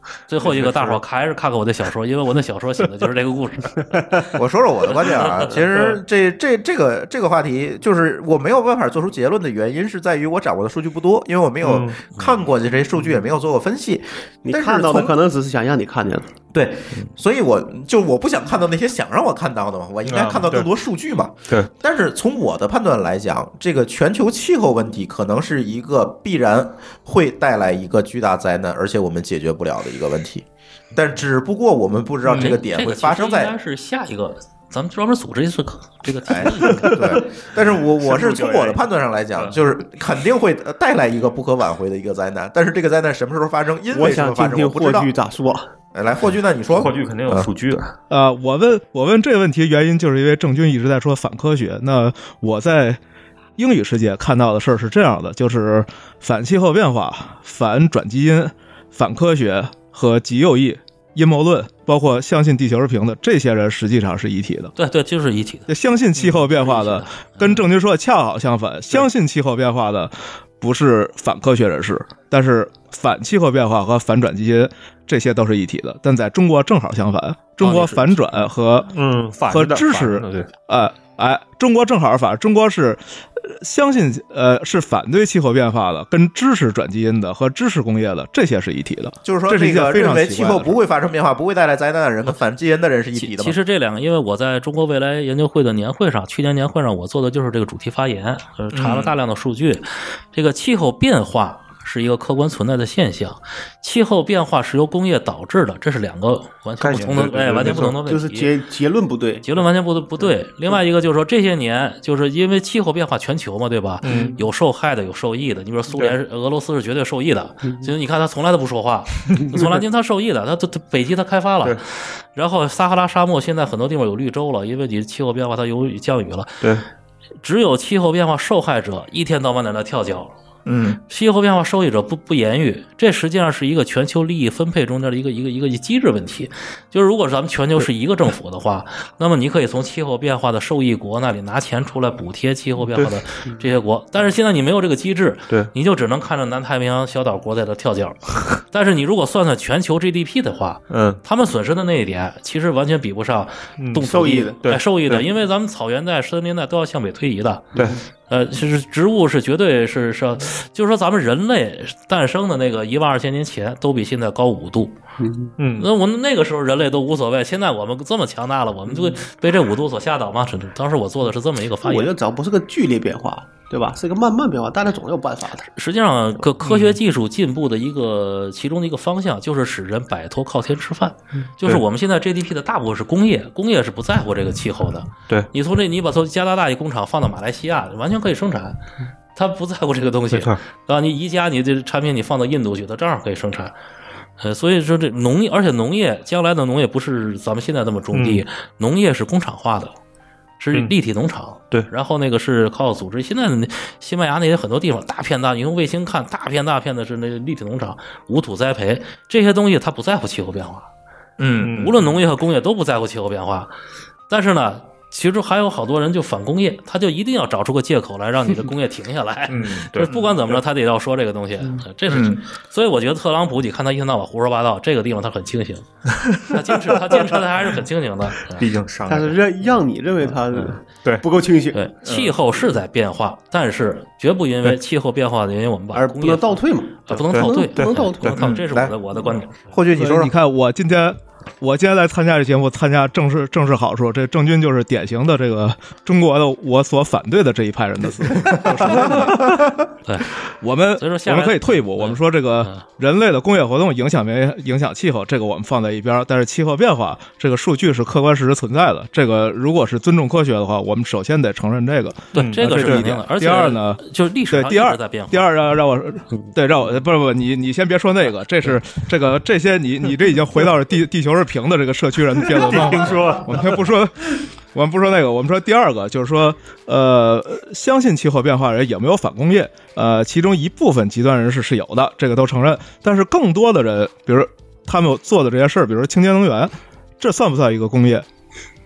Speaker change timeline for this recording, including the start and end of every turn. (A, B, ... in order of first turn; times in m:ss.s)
0:00.3-0:04.2 A
0:00.4-0:01.0 B
0:04.3-0:15.1 C
0:05.1-0:05.5 A
0:05.7-0:06.0 B
0:11.6-0:12.0 B
0:14.4-0:16.3 D
0:16.5-0:33.5 C
0:20.0-0:20.7 B
0:32.2-0:32.6 B
0:32.4-0:37.1 A
0:36.3-0:45.1 C
0:36.8-0:37.2 B
0:38.0-0:38.8 B
0:43.9-0:45.6 D
0:45.9-0:47.5 C
0:46.7-0:47.9 B
0:48.1-0:53.0 E
0:53.6-1:04.7 E
1:04.8-1:05.7 A
1:05.7-1:18.9 E
1:06.3-1:07.6 A
1:17.6-1:18.3 A
1:18.9-1:20.5 B
1:19.5-1:30.8 E
1:29.2-1:33.6 C
1:33.2-1:48.5 A
1:38.7-1:39.1 C
1:46.8-1:48.0 B
1:47.6-1:49.4 D
1:49.4-2:06.7 A
1:54.0-1:54.4 B
1:54.1-1:54.4 D
2:06.6-2:06.8 B
2:07.4-2:10.3 A
2:10.7-2:11.0 C
2:11.1-2:45.0 A
2:30.9-2:31.2 B
2:33.8-2:34.1 B
2:34.0-2:34.6 D
2:34.6-2:35.2 B
2:45.2-2:45.5 D
2:45.6-2:45.9 B
2:45.8-2:52.1 A
2:51.8-2:55.7 D
2:55.8-3:08.8 A
2:56.6-2:57.0 B
3:09.3-3:13.7 A
3:10.3-3:10.6 B
3:14.4-3:19.9 A
3:18.1-3:18.4 B
3:20.6-3:30.9 A
3:31.4-3:31.7 C
3:31.6-3:32.2 B
3:31.7-3:33.7 A
3:34.3-3:45.9 A
3:39.5-3:40.6 B
3:42.1-3:42.4 C
3:46.1-3:47.2 B
3:46.4-3:48.7 A
3:48.5-3:49.4 B
3:49.1-3:51.9 D
3:50.5-3:51.2 B
3:51.7-3:59.7 A
3:55.9-3:58.4 D
3:57.3-3:58.5 B
3:58.4-3:58.9 C
3:59.7-4:00.3 C
4:00.0-4:09.5 E
4:10.0-4:10.3 A
4:10.6-4:48.2 E
4:11.0-4:12.8 A
4:22.3-4:23.1 B
4:22.4-4:25.5 A
4:32.4-4:33.9 B